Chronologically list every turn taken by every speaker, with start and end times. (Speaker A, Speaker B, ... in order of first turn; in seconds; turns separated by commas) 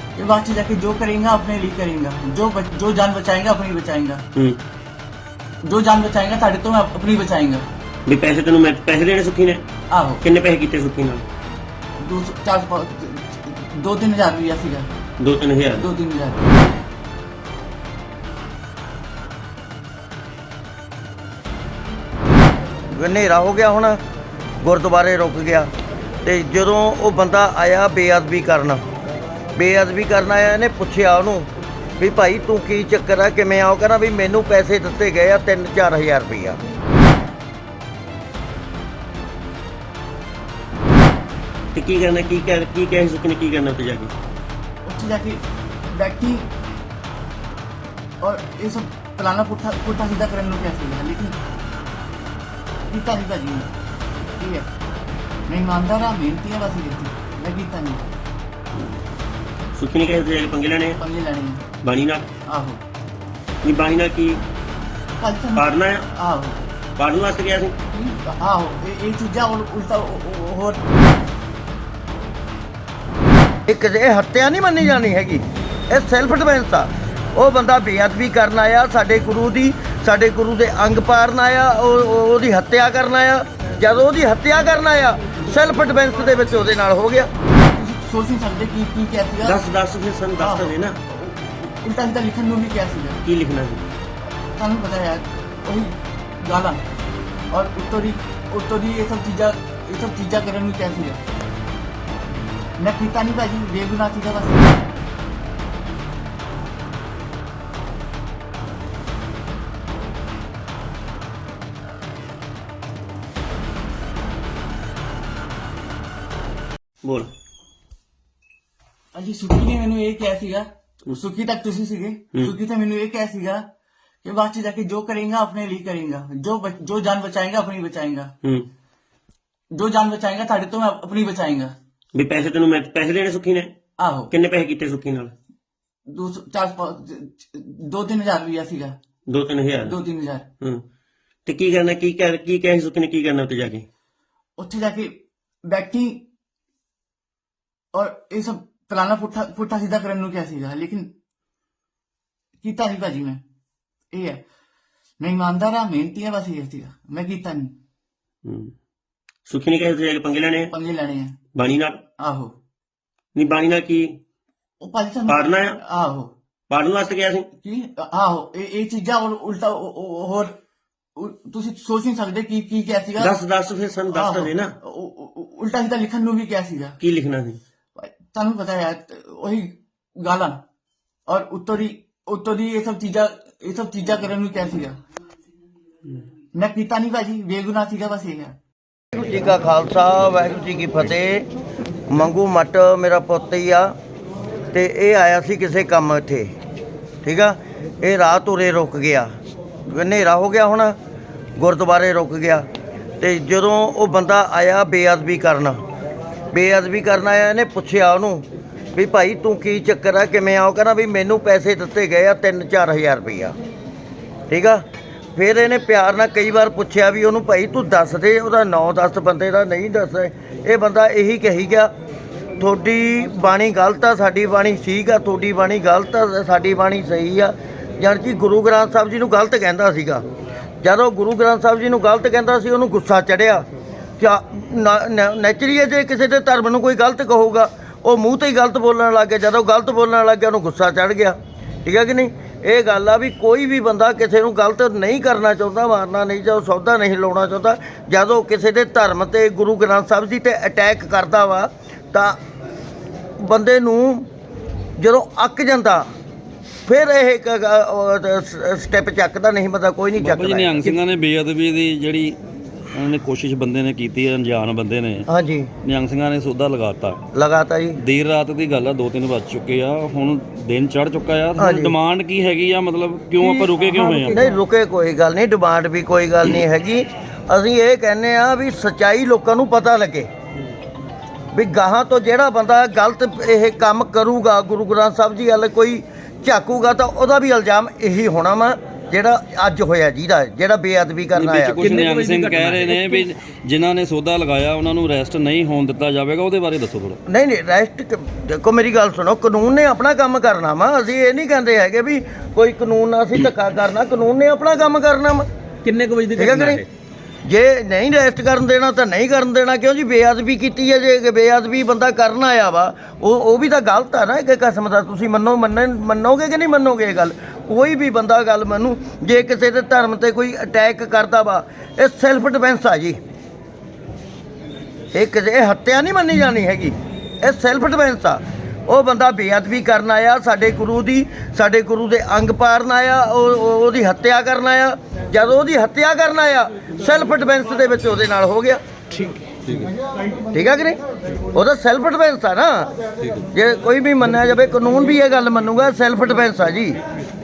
Speaker A: 0.1-4.2, Speaker B: 4.3-4.6, Speaker A: 5.7-7.7, Speaker B: 8.1-9.6, Speaker A: 9.9-10.2, Speaker B: 10.2-11.2, Speaker A: 12.0-14.9, Speaker B: 15.2-15.8, Speaker A: 15.8-16.6, Speaker C: 23.0-24.0, Speaker C: 24.6-25.7, Speaker C: 26.2-28.8, Speaker C: 29.6-31.5, Speaker C: 32.0-36.6, Speaker B: 41.8-44.1, Speaker A: 44.9-46.5, Speaker A: 48.2-51.4, Speaker A: 52.9-53.7, Speaker A: 54.4-54.7, Speaker A: 55.5-58.0, Speaker B: 59.8-61.0, Speaker A: 61.0-61.7, Speaker B: 61.8-62.3, Speaker A: 62.5-62.8, Speaker B: 63.6-64.4, Speaker A: 65.1-66.6, Speaker B: 65.5-66.0, Speaker B: 67.0-67.7, Speaker A: 67.9-71.0, Speaker C: 73.7-87.3, Speaker A: 87.7-89.6, Speaker B: 89.4-91.0, Speaker A: 90.4-93.2, Speaker B: 93.2-93.8, Speaker A: 94.5-96.8, Speaker A: 97.5-101.2, Speaker A: 102.8-104.8, Speaker B: 117.0-117.3, Speaker A: 119.1-123.7, Speaker A: 124.2-128.3, Speaker A: 129.7-131.7, Speaker B: 132.2-133.7, Speaker A: 134.0-134.3, Speaker B: 134.3-135.3, Speaker A: 136.1-139.0, Speaker B: 139.3-139.9, Speaker A: 139.8-140.5, Speaker B: 141.5-143.9, Speaker A: 144.6-146.2, Speaker A: 147.9-151.1, Speaker A: 152.6-153.4, Speaker A: 154.1-154.4, Speaker A: 155.2-157.7, Speaker B: 158.4-158.7, Speaker B: 159.5-160.7, Speaker A: 160.7-161.4, Speaker B: 161.6-162.0, Speaker A: 162.2-162.5, Speaker B: 163.4-164.2, Speaker A: 164.8-166.3, Speaker B: 165.3-165.8, Speaker B: 166.7-167.5, Speaker A: 167.6-170.6, Speaker A: 171.2-173.3, Speaker B: 173.2-174.8, Speaker A: 174.1-177.0, Speaker B: 177.0-177.6, Speaker A: 178.0-180.6, Speaker A: 181.3-185.0, Speaker A: 186.6-188.6, Speaker C: 189.1-191.4, Speaker C: 192.1-193.9, Speaker C: 194.7-196.5, Speaker C: 197.2-199.3, Speaker C: 199.9-201.0, Speaker C: 201.6-202.6, Speaker C: 203.2-205.8, Speaker C: 206.5-213.5, Speaker C: 214.5-214.8, Speaker C: 215.3-221.9, Speaker C: 222.6-230.2, Speaker C: 230.8-233.6, Speaker C: 234.2-252.4, Speaker C: 253.4-254.3, Speaker C: 255.0-256.1, Speaker C: 256.9-260.9, Speaker D: 260.2-262.4, Speaker D: 262.9-265.2, Speaker C: 265.3-265.7, Speaker D: 265.9-267.2, Speaker C: 267.4-268.0, Speaker D: 268.0-274.4, Speaker C: 271.6-271.9, Speaker A: 273.4-274.1, Speaker C: 274.2-280.3, Speaker C: 281.6-291.9, Speaker D: 291.4-297.2, Speaker E: 291.8-293.3, Speaker C: 297.3-305.4, Speaker E: 305.9-306.9, Speaker C: 306.4-306.8, Speaker C: 307.5-323.2, Speaker C: 325.1-338.8, Speaker C: 340.5-341.0, Speaker C: 341.6-342.9, Speaker C: 343.5-347.0